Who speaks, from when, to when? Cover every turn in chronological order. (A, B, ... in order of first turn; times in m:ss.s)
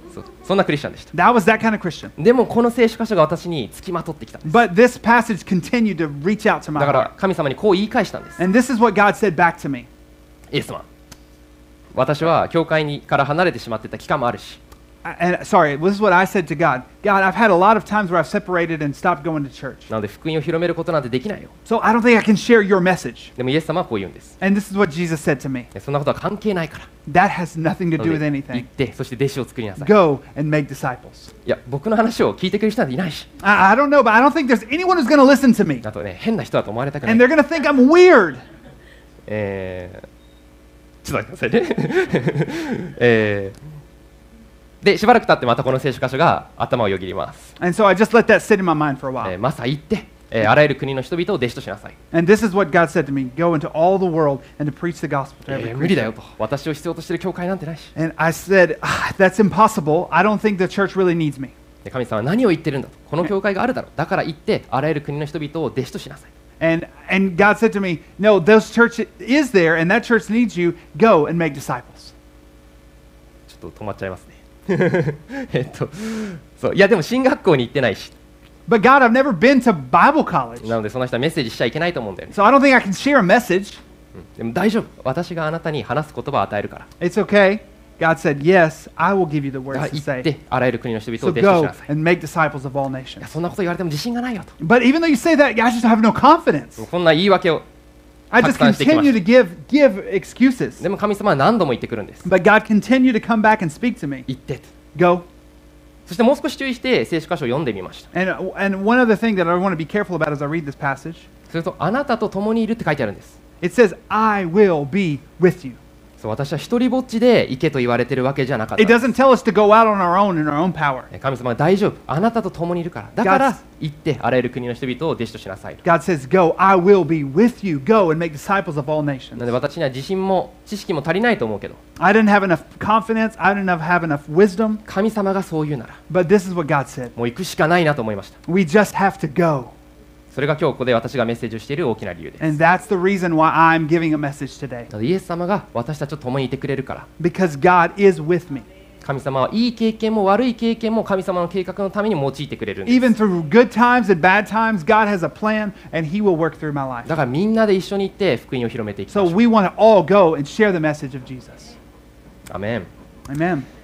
0:00.1-0:01.1 A
0:01.1-0:02.1 B
0:02.2-0:04.6 A
0:04.4-0:07.1 B
0:06.8-0:08.4 A
0:08.4-0:09.9 B
0:10.5-0:10.9 A
0:11.9-0:14.6 A
0:15.0-0:19.9 B
0:19.9-0:21.5 A
0:21.7-0:23.3 B
0:23.4-0:24.3 A
0:24.4-0:25.7 B
0:25.7-0:26.9 A
0:27.1-0:28.7 B
0:28.0-0:29.9 A
0:29.8-0:31.3 B
0:31.4-0:33.3 A
0:33.4-0:35.8 B
0:35.8-0:37.3 A
0:37.0-0:38.4 B
0:39.3-0:40.1 A
0:41.0-0:43.6 A
0:44.8-0:47.5 A
0:47.6-0:49.4 B
0:49.2-0:52.0 A
0:52.1-0:56.1 B
0:55.5-0:57.9 A
0:58.0-1:01.5 B
1:01.8-1:06.3 A
1:06.6-1:12.1 B
1:13.5-1:18.1 A
1:18.7-1:20.8 B
1:20.6-1:22.4 A
1:22.3-1:23.8 B
1:24.2-1:26.9 A
1:27.0-1:30.3 B
1:29.7-1:31.9 A
1:31.2-1:33.2 B
1:33.2-1:34.5 A
1:34.6-1:36.8 B
1:36.8-1:37.6 A
1:38.3-1:40.8 B
1:38.4-1:39.2 A
1:40.8-1:42.3 A
1:42.2-1:44.3 B
1:44.3-1:44.7 A
1:44.9-1:45.3 B
1:46.1-1:48.1 A
1:48.1-1:51.3 B
1:51.5-1:53.4 A
1:53.6-1:55.8 B
1:56.2-1:59.1 A
1:58.8-2:01.1 B
2:01.1-2:05.8 A
2:03.2-2:03.6 B
2:05.8-2:09.5 B
2:09.4-2:11.8 A
2:12.0-2:14.8 B
2:14.8-2:16.0 A
2:16.1-2:17.1 B
2:17.2-2:18.4 A
2:18.5-2:19.7 B
2:20.3-2:22.6 A
2:22.4-2:24.9 B
2:24.9-2:27.1 A
2:27.2-2:28.6 B
2:29.0-2:33.2 A
2:32.9-2:37.2 B
2:37.1-2:39.4 A
2:39.1-2:41.7 B
2:42.5-2:42.9 A
2:43.3-2:43.7 B